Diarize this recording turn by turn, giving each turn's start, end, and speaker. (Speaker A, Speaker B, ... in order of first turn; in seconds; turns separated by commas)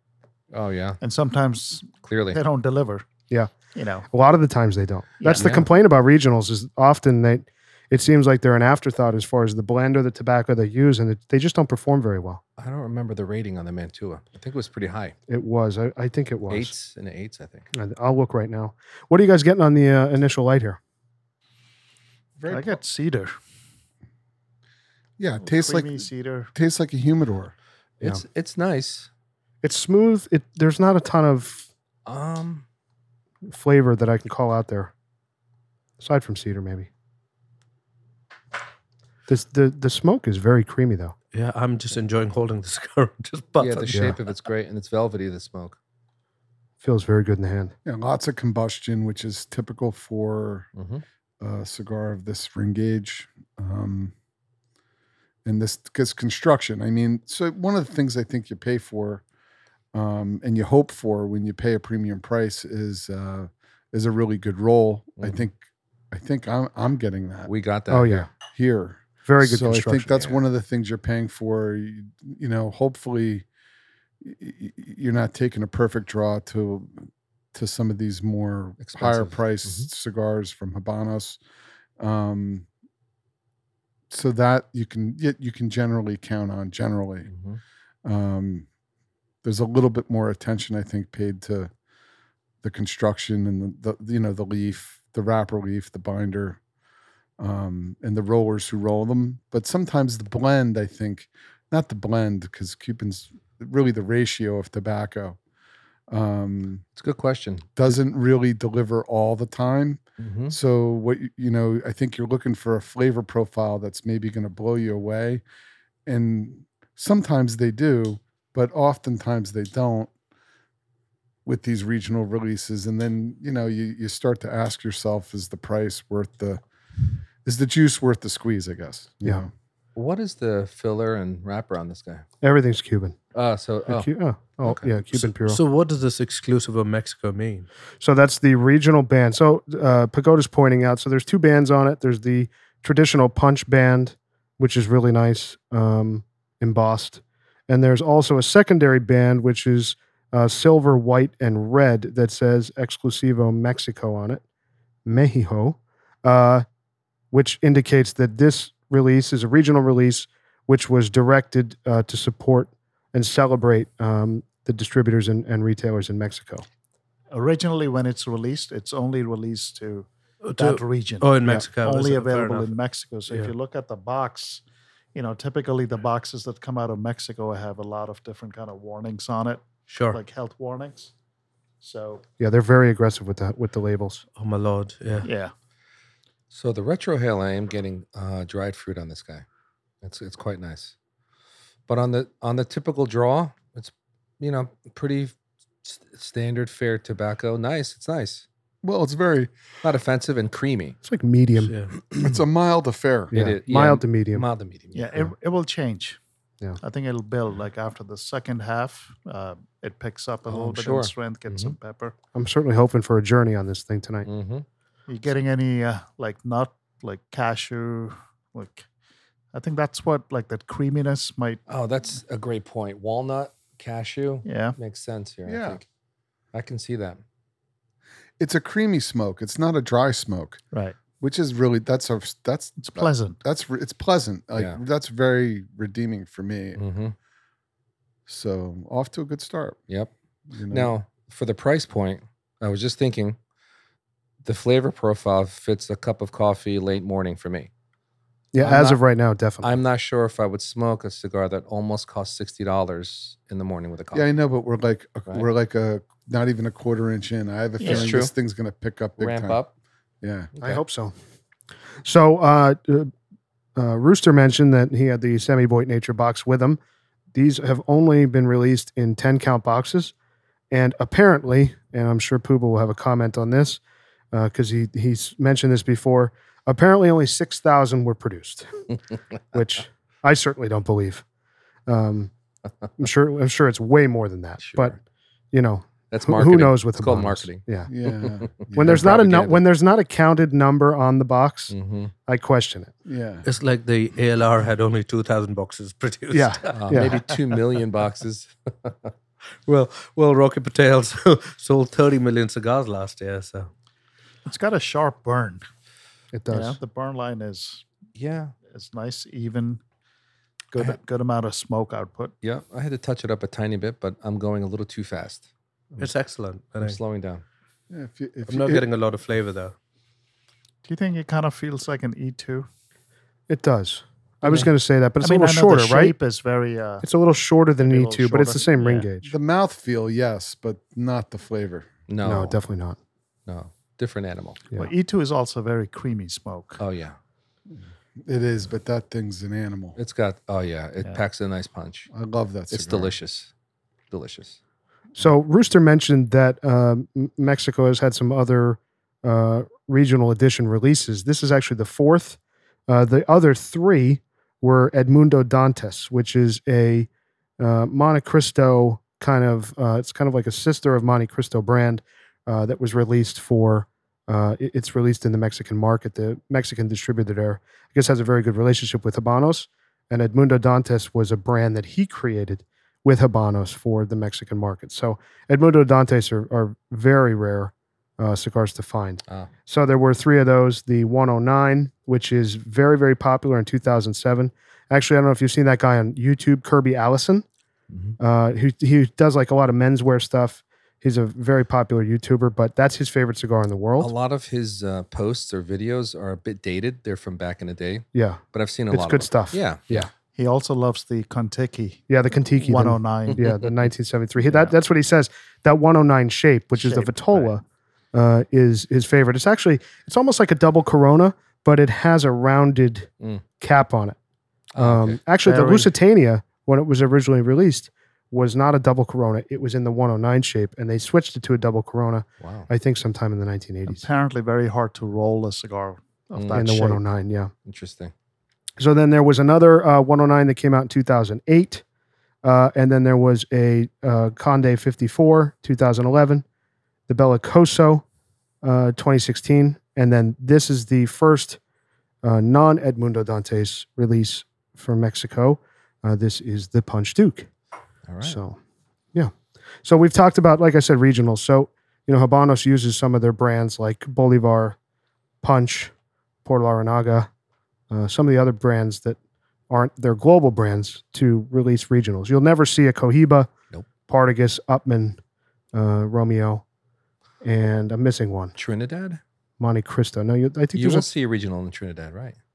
Speaker A: 0.5-1.0, Speaker B: 1.0-3.0, Speaker A: 2.0-2.4, Speaker B: 3.7-4.1, Speaker C: 4.1-12.4, Speaker B: 5.2-5.6, Speaker A: 5.3-5.7, Speaker A: 12.6-15.1, Speaker C: 15.3-16.7, Speaker A: 16.5-17.7, Speaker C: 17.7-20.8, Speaker D: 22.4-22.8, Speaker B: 22.5-23.3, Speaker D: 25.2-27.5, Speaker B: 25.4-26.5, Speaker A: 28.0-29.1, Speaker C: 29.6-31.6, Speaker A: 32.0-32.6, Speaker C: 33.5-34.9, Speaker C: 36.0-36.9, Speaker C: 39.3-41.1, Speaker E: 41.3-44.2, Speaker A: 43.6-45.8, Speaker C: 43.9-44.1, Speaker C: 46.8-47.7, Speaker D: 47.8-50.7, Speaker A: 50.8-51.0, Speaker D: 51.4-54.1, Speaker D: 55.4-59.2, Speaker D: 59.9-65.5, Speaker D: 66.1-67.5, Speaker A: 67.5-68.3, Speaker C: 67.9-68.3, Speaker D: 68.3-73.4, Speaker C: 69.2-70.2, Speaker A: 70.1-70.4, Speaker D: 74.2-81.4, Speaker A: 78.8-79.9, Speaker D: 82.0-82.7, Speaker D: 84.1-87.3, Speaker A: 87.3-87.6, Speaker D: 88.0-88.7, Speaker D: 89.4-91.7, Speaker D: 92.6-96.6, Speaker D: 97.4-105.4, Speaker D: 106.1-106.8, Speaker A: 107.0-107.8, Speaker D: 107.8-115.4, Speaker A: 110.2-110.5, Speaker D: 116.0-120.1, Speaker D: 121.4-126.6, Speaker D: 127.4-129.5, Speaker A: 129.9-132.2, Speaker C: 132.4-133.2, Speaker A: 133.3-134.1, Speaker C: 133.9-135.6, Speaker A: 134.6-134.9, Speaker E: 135.1-137.7, Speaker C: 138.0-154.4, Speaker C: 155.1-156.6, Speaker C: 157.3-166.7, Speaker B: 167.3-174.6, Speaker E: 170.4-172.7, Speaker B: 175.1-181.1, Speaker E: 179.9-180.2, Speaker B: 181.8-182.2, Speaker C: 182.4-184.2, Speaker E: 184.4-185.3, Speaker B: 185.2-185.5, Speaker A: 186.5-189.4, Speaker A: 190.0-190.9, Speaker A: 191.9-198.4, Speaker D: 198.8-199.5, Speaker A: 199.8-201.0, Speaker C: 201.0-201.7, Speaker E: 201.6-201.9, Speaker D: 202.1-203.3, Speaker A: 203.3-205.2, Speaker C: 203.3-204.4, Speaker B: 204.9-206.2, Speaker B: 206.8-212.1, Speaker A: 210.5-211.8, Speaker C: 212.3-214.3, Speaker A: 214.2-214.7, Speaker B: 215.1-218.8, Speaker B: 219.5-221.6, Speaker A: 221.7-225.8, Speaker B: 224.4-224.8, Speaker D: 225.4-225.8, Speaker A: 226.5-227.2, Speaker D: 228.4-230.6, Speaker B: 230.7-231.0, Speaker D: 231.2-236.8, Speaker B: 232.8-233.4, Speaker A: 236.8-237.1, Speaker D: 238.3-239.8, Speaker D: 240.5-240.9, Speaker A: 240.7-243.4, Speaker A: 244.4-247.7, Speaker C: 248.5-249.7, Speaker A: 248.6-249.0, Speaker A: 249.6-254.3, Speaker D: 254.1-259.6, Speaker B: 257.8-258.1, Speaker A: 257.8-258.3, Speaker A: 259.2-259.7, Speaker D: 260.2-260.5, Speaker A: 260.5-260.8, Speaker C: 260.6-261.1, Speaker C: 262.0-263.1, Speaker C: 263.8-266.8, Speaker C: 267.3-270.1, Speaker C: 270.7-273.8, Speaker C: 274.3-278.9, Speaker C: 279.5-281.2, Speaker C: 281.9-282.3, Speaker C: 283.0-284.9, Speaker A: 284.6-284.9, Speaker C: 285.5-287.9, Speaker A: 286.1-289.6, Speaker D: 287.9-289.0, Speaker C: 288.7-291.7, Speaker A: 291.7-292.1, Speaker C: 292.3-292.9, Speaker D: 293.1-293.4, Speaker E: 293.4-297.1, Speaker C: 296.3-297.2, Speaker A: 296.7-299.1, Speaker E: 299.6-303.7, Speaker B: 304.4-305.6, Speaker C: 306.3-306.8, Speaker B: 306.5-307.8, Speaker A: 308.1-308.5, Speaker B: 308.7-309.8, Speaker B: 310.7-312.3, Speaker A: 312.4-315.4, Speaker E: 316.0-317.0, Speaker A: 316.8-317.4, Speaker D: 317.9-318.8, Speaker E: 318.5-319.7, Speaker B: 320.8-322.7, Speaker C: 323.5-326.1, Speaker B: 325.2-327.0, Speaker C: 327.0-329.3, Speaker B: 327.8-329.1, Speaker D: 329.2-331.9, Speaker A: 332.1-332.6, Speaker C: 332.2-333.0, Speaker A: 333.5-334.6, Speaker B: 334.8-336.8, Speaker A: 336.8-337.1, Speaker D: 338.2-340.0, Speaker A: 340.0-342.1, Speaker D: 342.1-343.1, Speaker A: 342.7-343.5, Speaker A: 344.1-344.6, Speaker C: 345.1-357.1, Speaker C: 357.6-387.4, Speaker A: 387.9-388.1, Speaker C: 388.2-394.1, Speaker A: 394.0-400.1, Speaker C: 398.1-400.1, Speaker B: 400.3-403.4, Speaker C: 402.1-407.6, Speaker B: 406.8-407.5, Speaker C: 408.1-414.2, Speaker A: 414.7-415.2, Speaker C: 414.8-424.1, Speaker B: 415.4-415.9, Speaker A: 422.4-422.7, Speaker B: 423.9-427.0, Speaker A: 426.3-426.7, Speaker C: 426.5-427.5, Speaker A: 427.6-428.1, Speaker C: 428.8-431.8, Speaker C: 432.4-436.4, Speaker C: 437.1-438.0, Speaker C: 438.6-441.6, Speaker C: 442.2-447.5, Speaker A: 448.1-448.4, Speaker C: 448.2-448.6, Speaker C: 449.8-454.8, Speaker C: 455.4-455.9, Speaker C: 456.4-457.3, Speaker C: 457.9-459.2, Speaker C: 459.7-463.5, Speaker C: 464.1-465.2, Speaker C: 465.7-466.6, Speaker C: 467.4-468.5, Speaker A: 468.6-469.2, Speaker C: 469.6-471.1, Speaker A: 470.7-472.4